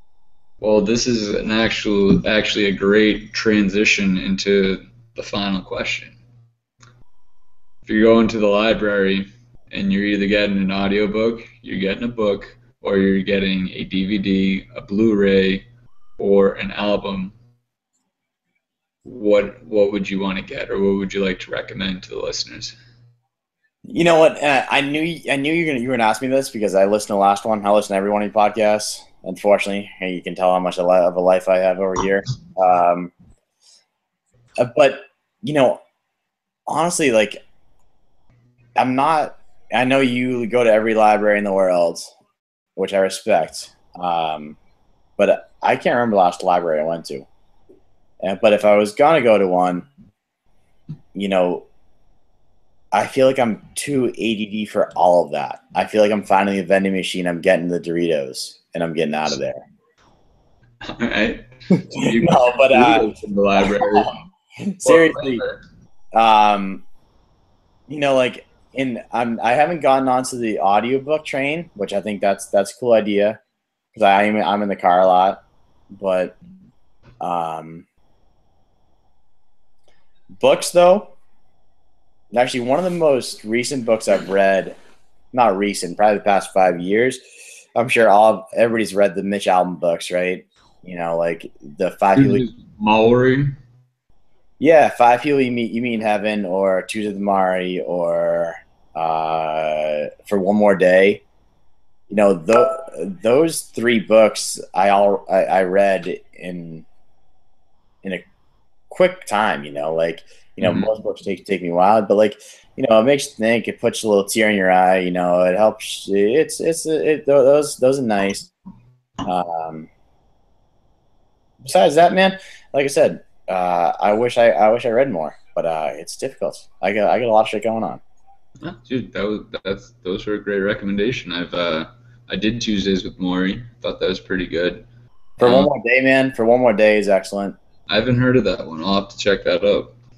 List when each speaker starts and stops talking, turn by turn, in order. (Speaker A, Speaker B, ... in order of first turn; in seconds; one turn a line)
Speaker A: 0.6-6.2
Speaker A: 7.8-15.6
Speaker A: 16.2-17.4
Speaker A: 19.0-22.7
Speaker B: 23.9-33.1
Speaker B: 34.6-35.8
Speaker B: 36.7-37.4
Speaker B: 38.8-42.1
Speaker B: 42.8-44.6
Speaker B: 45.2-47.2
Speaker B: 48.2-49.9
Speaker B: 51.1-51.6
Speaker B: 52.9-59.6
Speaker A: 60.8-64.1
Speaker B: 61.9-65.4
Speaker A: 64.8-65.6
Speaker B: 66.1-66.8
Speaker B: 67.9-73.4
Speaker B: 73.9-76.3
Speaker B: 77.2-77.8
Speaker B: 80.4-81.1
Speaker B: 82.3-84.8
Speaker B: 85.3-87.2
Speaker B: 87.7-92.4
Speaker A: 92.1-93.6
Speaker B: 94.6-101.2
Speaker B: 102.1-106.8
Speaker B: 108.9-118.5
Speaker A: 110.6-110.9
Speaker B: 119.2-119.9
Speaker B: 121.6-128.0
Speaker A: 128.6-134.8
Speaker B: 135.4-137.6
Speaker A: 135.4-135.7
Speaker A: 137.9-139.9